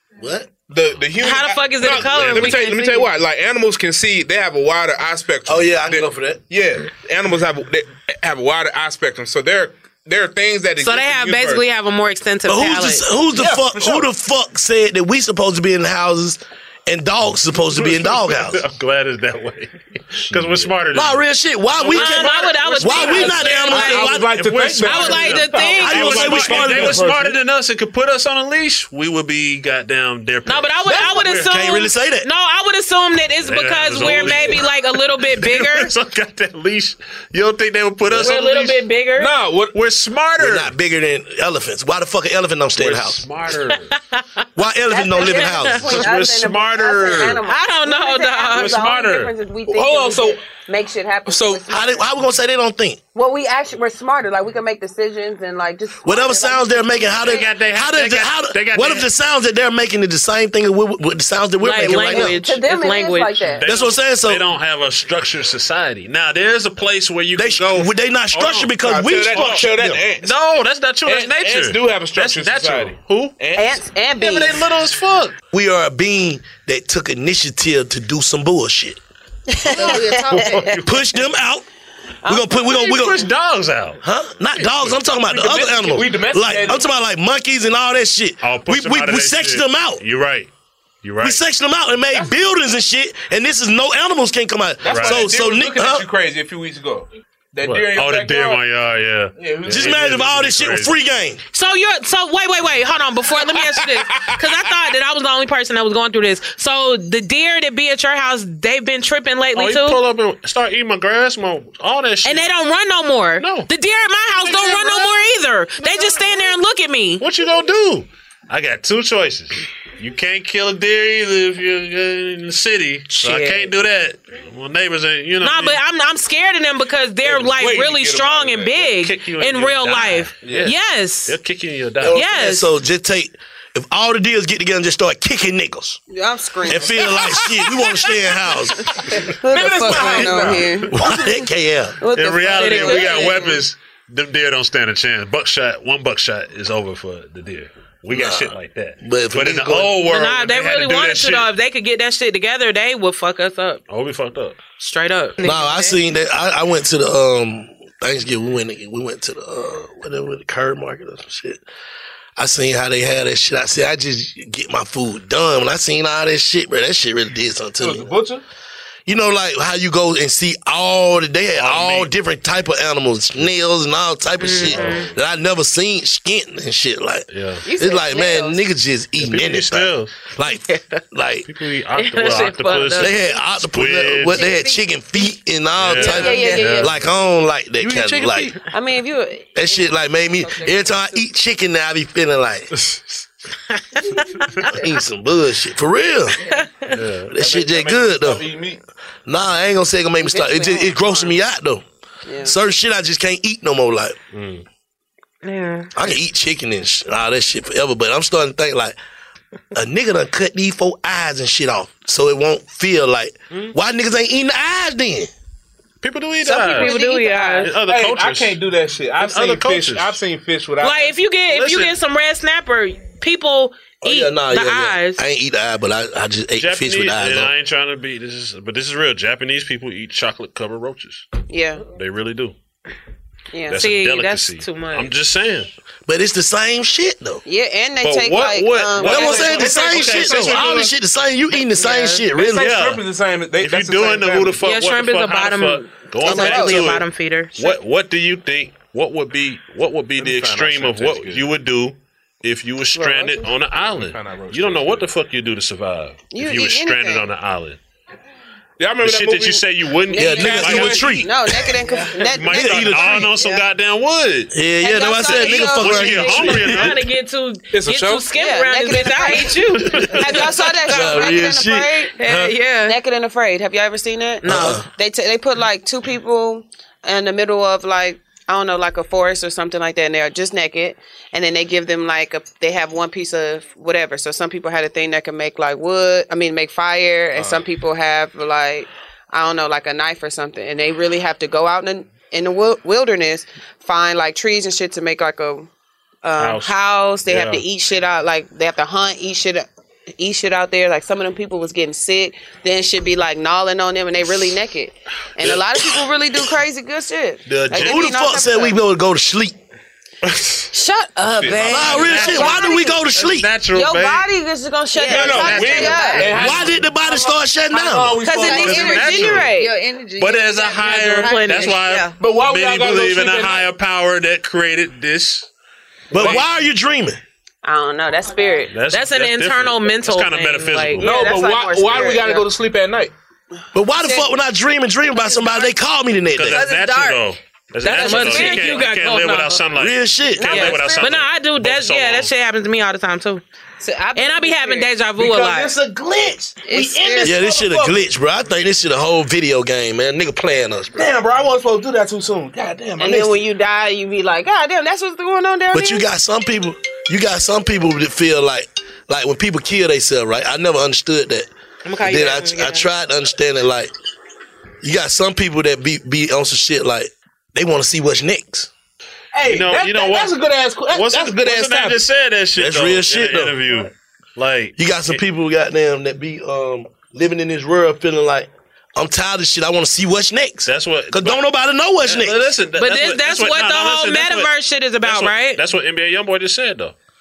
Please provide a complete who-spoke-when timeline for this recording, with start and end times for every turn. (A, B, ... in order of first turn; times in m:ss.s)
0:00.2-0:00.5 A
0:00.7-0:11.6 B
0:01.2-0:03.1 C
0:01.8-0:02.6 D
0:05.4-0:06.4 A
0:10.8-0:13.1 C
0:12.4-0:18.6 A
0:13.3-0:14.0 B
0:17.7-0:21.2 D
0:20.9-0:25.2 A
0:21.8-0:24.1 D
0:21.9-0:24.2 C
0:22.0-0:22.3 B
0:22.9-0:27.4 B
0:24.8-0:26.4 C
0:24.9-0:31.4 D
0:25.8-0:27.0 A
0:30.4-0:35.9 C
0:30.9-0:31.2 B
0:31.5-0:32.3 A
0:33.4-0:38.8 D
0:38.1-0:39.3 C
0:39.2-0:39.7 B
0:39.7-0:40.7 D
0:40.4-0:43.2 A
0:42.8-0:43.9 D
0:43.7-0:44.2 C
0:44.6-0:46.0 A
0:44.9-0:52.0 E
0:45.1-0:45.7 C
0:45.5-0:47.4 D
0:47.4-0:48.8 C
0:48.5-0:49.3 D
0:49.7-0:50.4 B
0:51.2-0:51.6 B
0:51.7-0:53.0 A
0:53.1-0:57.5 E
0:56.0-1:02.4 A
0:57.2-0:59.1 D
1:01.6-1:03.6 C
1:01.9-1:03.6 E
1:03.4-1:08.7 D
1:03.6-1:04.4 A
1:07.3-1:10.0 A
1:08.8-1:10.4 B
1:09.3-1:09.7 D
1:10.2-1:13.4 D
1:11.0-1:13.8 B
1:13.5-1:14.6 E
1:14.2-1:15.4 D
1:15.5-1:19.0 A
1:19.5-1:20.8 E
1:19.7-1:20.6 F
1:19.7-1:21.2 D
1:20.8-1:21.6 A
1:22.2-1:23.1 E
1:22.2-1:23.3 A
1:22.6-1:24.0 D
1:24.0-1:30.0 A
1:24.5-1:25.0 D
1:25.3-1:26.8 B
1:28.4-1:30.5 D
1:31.0-1:31.4 D
1:31.2-1:36.0 A
1:34.8-1:38.6 B
1:34.9-1:35.3 D
1:37.6-1:40.9 D
1:39.4-1:40.0 B
1:39.7-1:41.4 A
1:41.5-1:50.0 C
1:43.8-1:44.4 B
1:49.5-1:52.5 D
1:52.2-1:57.2 C
1:53.4-1:53.7 D
1:54.4-1:55.1 B
1:56.0-1:56.2 B
1:57.2-2:05.8 D
2:03.1-2:03.7 C
2:05.4-2:11.4 C
2:07.2-2:08.9 B
2:09.0-2:12.2 D
2:10.4-2:10.7 B
2:12.0-2:16.0 A
2:12.1-2:12.7 C
2:16.1-2:17.4 E
2:16.6-2:18.9 A
2:18.9-2:21.4 E
2:19.5-2:20.7 B
2:19.9-2:22.0 A
2:20.4-2:20.9 D
2:22.0-2:23.6 E
2:22.1-2:31.5 D
2:22.5-2:23.4 C
2:28.1-2:30.0 A
2:30.0-2:33.8 C
2:33.9-2:34.6 D
2:34.8-2:36.0 C
2:35.4-2:41.6 A
2:42.4-2:48.1 A
2:47.8-2:48.4 B
2:49.0-3:01.5 A
2:51.6-2:52.1 D
2:54.4-2:55.1 C
2:54.6-2:55.1 D
2:57.3-2:57.6 D
2:57.6-2:58.6 E
2:59.2-3:00.2 D
3:00.7-3:01.0 C
3:01.5-3:04.5 D
3:01.9-3:03.3 C
3:03.0-3:08.5 A
3:04.4-3:04.6 E
3:05.8-3:07.1 D
3:06.0-3:06.8 F
3:06.0-3:06.9 E
3:07.8-3:08.5 B
3:08.7-3:11.3 E
3:09.5-3:12.7 A
3:13.9-3:14.4 C
3:14.7-3:16.4 A
3:16.5-3:16.9 C
3:16.9-3:17.3 D
3:17.3-3:18.4 A
3:17.4-3:18.8 B
3:19.2-3:21.8 A
3:20.2-3:21.4 E
3:22.2-3:22.5 E
3:22.4-3:24.2 A
3:24.3-3:24.6 D
3:25.4-3:25.9 C
3:25.9-3:29.0 A
3:29.7-3:35.3 A
3:36.0-3:37.0 D
3:36.4-3:37.7 E
3:36.6-3:37.7 C
3:37.6-3:38.6 D
3:37.8-3:41.2 B
3:39.2-3:40.2 D
3:40.8-3:45.2 C
3:41.5-3:42.0 D
3:44.0-3:47.5 A
3:46.5-3:51.3 D
3:51.5-3:51.8 E
3:51.9-3:52.6 D
3:53.5-3:53.8 E
3:53.7-3:55.7 D
3:53.7-3:55.1 C
3:56.0-3:57.4 A
3:57.4-3:59.7 E
3:58.0-4:00.9 D
3:59.0-4:02.7 A
3:59.1-4:00.9 B
4:01.7-4:02.2 C
4:02.3-4:04.6 B
4:02.5-4:03.0 D
4:03.6-4:17.8 D
4:04.6-4:07.7 C
4:06.2-4:07.0 E
4:10.2-4:11.5 B
4:12.9-4:13.5 E
4:13.9-4:15.1 B
4:16.3-4:17.2 E
4:18.8-4:21.2 B
4:19.0-4:21.3 D
4:20.1-4:21.7 A
4:20.2-4:23.4 E
4:22.1-4:24.5 D
4:22.5-4:23.3 A
4:24.5-4:26.9 A
4:24.8-4:26.7 E
4:25.2-4:25.6 C
4:25.3-4:27.0 D
4:26.4-4:31.3 C
4:27.7-4:28.2 B
4:28.3-4:32.1 E
4:29.8-4:30.2 A
4:30.8-4:32.5 A
4:32.2-4:33.0 C
4:32.8-4:55.7 E
4:34.4-4:34.8 C
4:34.4-4:34.8 A
4:47.3-4:47.6 D
4:56.2-5:08.8 E
4:56.4-4:57.6 D
5:05.4-5:05.7 D
5:07.5-5:08.1 D
5:07.7-5:09.6 A
5:10.2-5:10.7 D
5:10.7-5:13.0 E
5:11.3-5:11.7 B
5:11.4-5:12.4 C
5:11.6-5:14.3 D
5:11.7-5:13.5 A
5:13.7-5:16.4 E
5:14.9-5:16.3 F
5:15.0-5:19.3 B
5:15.1-5:16.7 D
5:16.3-5:18.2 A
5:18.2-5:19.7 E
5:18.2-5:22.2 F
5:18.4-5:19.5 D
5:20.2-5:25.5 D
5:21.2-5:21.8 C
5:22.2-5:23.7 B
5:26.1-5:26.4 D
5:26.1-5:27.2 A
5:26.1-5:26.4 B
5:27.6-5:28.8 E
5:28.7-5:31.1 D
5:28.9-5:31.1 C
5:31.0-5:33.1 B
5:31.0-5:32.4 E
5:33.7-5:36.6 A
5:33.9-5:34.3 E
5:35.4-5:35.7 E
5:36.3-5:42.3 D
5:36.5-5:37.3 F
5:37.8-5:39.6 C
5:37.9-5:38.9 E
5:39.7-5:40.8 A
5:40.4-5:41.2 E
5:40.5-5:43.4 C
5:43.8-5:44.9 E
5:44.1-5:45.8 C
5:45.2-5:48.0 B
5:46.6-5:47.4 E
5:47.2-5:51.1 A
5:51.0-5:53.3 B
5:53.0-5:56.0 E
5:55.7-6:01.5 A
6:01.8-6:02.9 C
6:02.0-6:03.9 A
6:04.8-6:08.7 A
6:09.3-6:12.0 B
6:09.4-6:10.3 D
6:10.9-6:15.2 D
6:12.6-6:13.6 A
6:14.8-6:22.5 A
6:20.6-6:21.5 D
6:22.0-6:24.5 D
6:22.8-6:25.6 C
6:25.0-6:26.9 D